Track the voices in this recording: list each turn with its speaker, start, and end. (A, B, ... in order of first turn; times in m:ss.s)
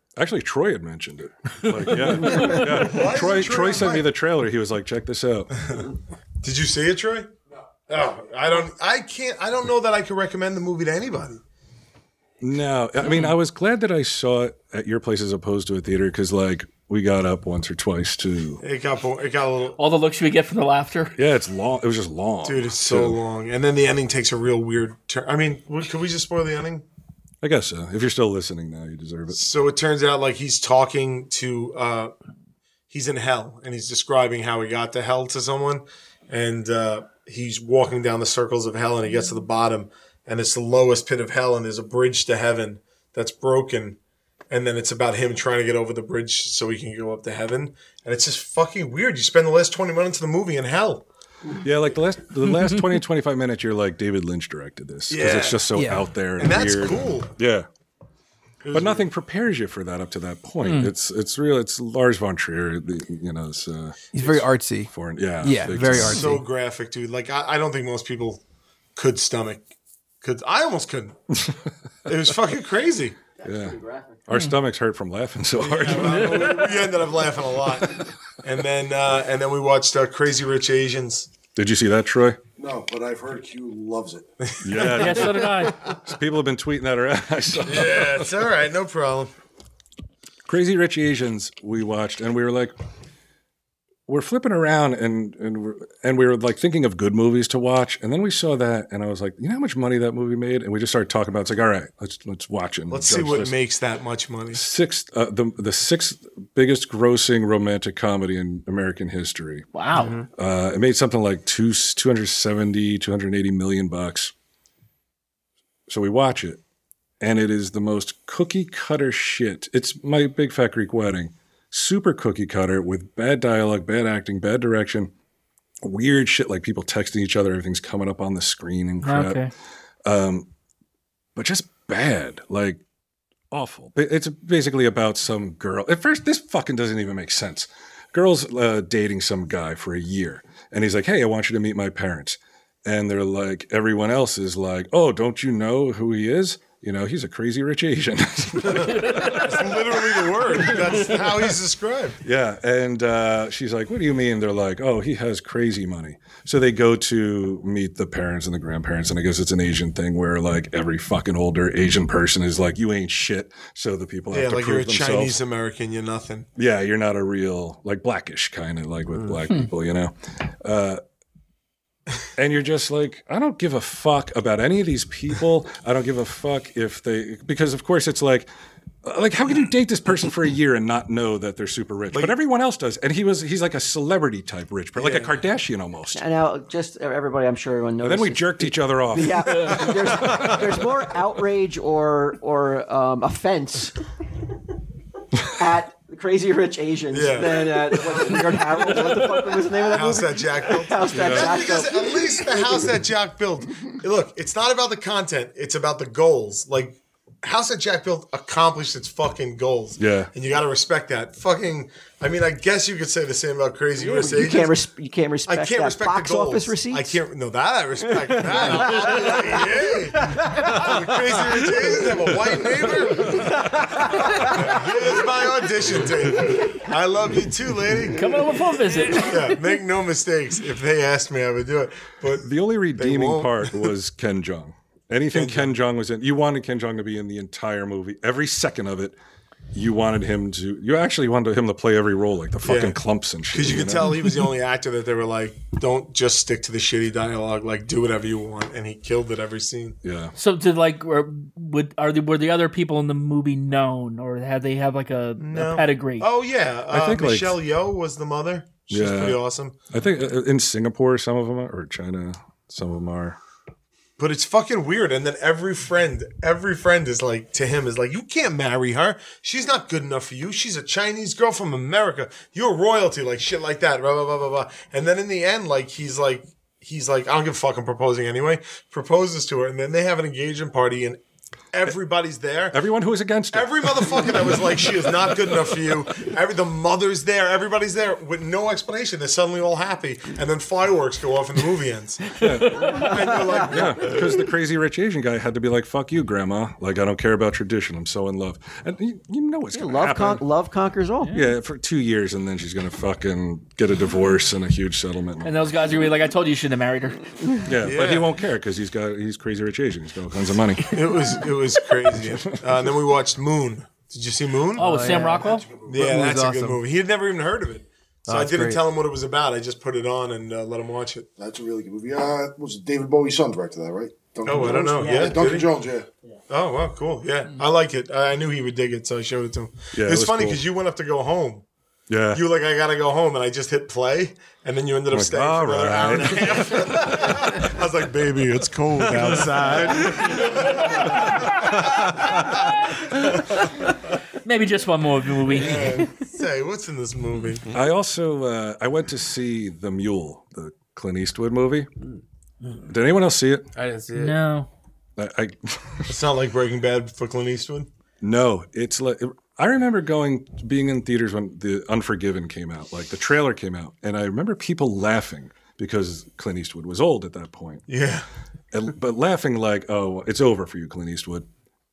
0:00.2-0:05.5 A
0:02.2-0:04.1 B
0:06.4-0:07.3 B
0:07.9-0:11.4 B
0:12.4-0:18.6 A
0:18.6-0:19.8 B
0:19.8-0:21.1 C
0:21.1-0:23.2 A
0:22.4-0:26.8 B
0:27.4-0:29.4 A
0:29.3-0:32.1 B
0:32.9-0:44.0 B
0:44.5-0:51.0 B
0:51.6-0:57.7 A
0:55.1-0:55.7 B
0:55.7-0:56.1 D
0:56.4-0:57.3 B
0:58.6-0:59.1 B
0:58.7-1:04.3 A
1:00.6-1:00.9 C
1:04.1-1:04.9 D
1:04.9-1:06.4 A
1:05.4-1:06.4 D
1:05.8-1:08.4 B
1:09.0-1:09.7 B
1:10.2-1:11.2 B
1:11.3-1:11.6 A
1:12.0-1:13.2 B
1:13.4-1:14.2 E
1:13.4-1:16.6 A
1:15.6-1:21.3 B
1:21.6-1:22.4 A
1:22.6-1:24.3 F
1:24.6-1:28.3 A
1:24.6-1:25.2 B
1:24.8-1:25.8 C
1:27.6-1:29.3 B
1:30.4-1:32.7 A
1:34.1-1:43.6 A
1:42.9-1:44.6 B
1:44.5-1:49.7 A
1:49.7-1:50.1 C
1:50.4-1:54.3 A
1:55.9-1:56.6 A
1:57.2-2:05.1 A
2:05.8-2:09.4 A
2:09.0-2:09.5 C
2:10.0-2:10.5 A
2:11.3-2:12.8 A
2:13.5-2:31.4 A
2:28.7-2:32.2 B
2:28.9-2:29.5 C
2:32.2-2:45.4 A
2:44.3-2:46.5 B
2:46.6-2:51.0 A
2:52.4-2:58.5 A
2:59.0-3:06.2 A
3:04.9-3:05.3 B
3:06.1-3:14.0 E
3:08.0-3:10.9 A
3:15.5-3:22.7 E
3:17.1-3:18.4 B
3:19.9-3:34.8 B
3:21.1-3:21.7 A
3:30.0-3:30.3 A
3:34.1-3:37.2 E
3:35.5-3:48.3 B
3:38.2-3:39.6 E
3:40.3-3:40.9 E
3:43.3-3:44.6 E
3:48.1-3:49.6 C
3:49.1-3:53.8 B
3:52.4-3:59.2 A
3:55.3-3:55.7 B
3:59.7-4:04.2 A
4:02.6-4:03.0 B
4:03.5-4:10.0 B
4:10.0-4:10.3 A
4:10.4-4:16.3 C
4:15.4-4:19.8 B
4:16.9-4:17.6 A
4:18.9-4:23.4 A
4:24.2-4:41.2 B
4:41.7-4:42.8 B
4:42.7-4:45.5 A
4:43.5-4:54.4 B
4:52.4-5:00.4 A
4:53.0-4:53.3 E
4:59.7-5:01.3 E
5:01.2-5:01.5 C
5:01.3-5:05.7 A
5:05.4-5:07.6 C
5:07.6-5:11.0 A
5:07.8-5:08.3 B
5:10.9-5:15.2 B
5:14.8-5:15.7 C
5:14.8-5:16.8 D
5:15.4-5:16.1 F
5:15.9-5:21.3 B
5:18.3-5:18.8 D
5:21.4-5:26.1 F
5:24.4-5:25.7 B
5:26.5-5:31.6 B
5:29.9-5:30.6 A
5:32.1-5:32.4 A
5:32.3-5:42.2 B
5:35.1-5:37.3 A
5:44.4-5:46.0 C
5:45.5-5:47.6 B
5:47.7-5:51.9 A
5:52.8-5:53.7 A
5:53.7-5:54.4 D
5:54.1-5:54.7 C
5:55.2-5:56.2 A
5:56.1-5:57.9 B
5:58.2-6:07.8 A
6:07.9-6:08.3 B
6:08.7-6:11.4 A